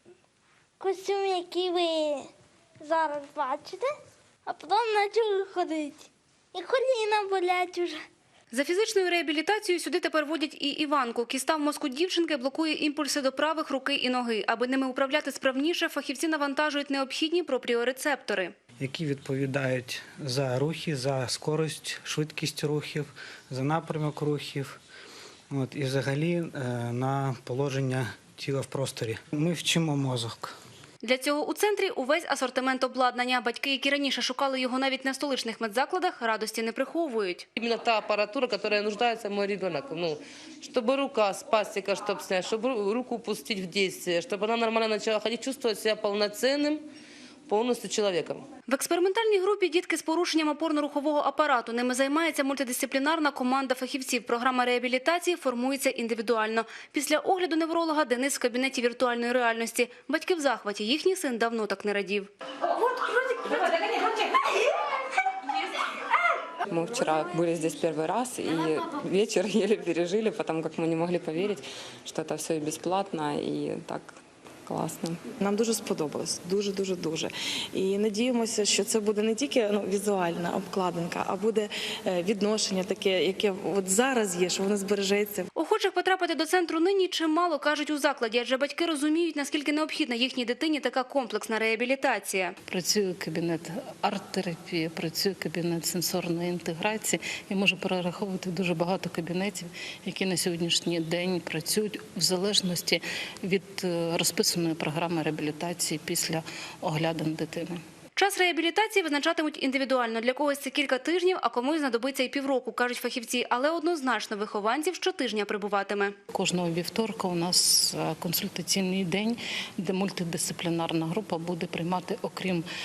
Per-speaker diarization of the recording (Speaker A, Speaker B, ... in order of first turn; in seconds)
Speaker A: 0.8-2.3, 2.8-3.9, 4.5-8.0
Speaker B: 8.5-18.5, 31.0-37.5, 48.7-62.3, 85.6-92.6, 108.2-116.2
Speaker C: 18.8-24.8, 25.5-30.6
Speaker D: 37.6-46.8, 47.5-48.4
Speaker E: 66.7-75.2
Speaker F: 75.4-85.5
Speaker G: 92.7-107.8, 116.3-122.6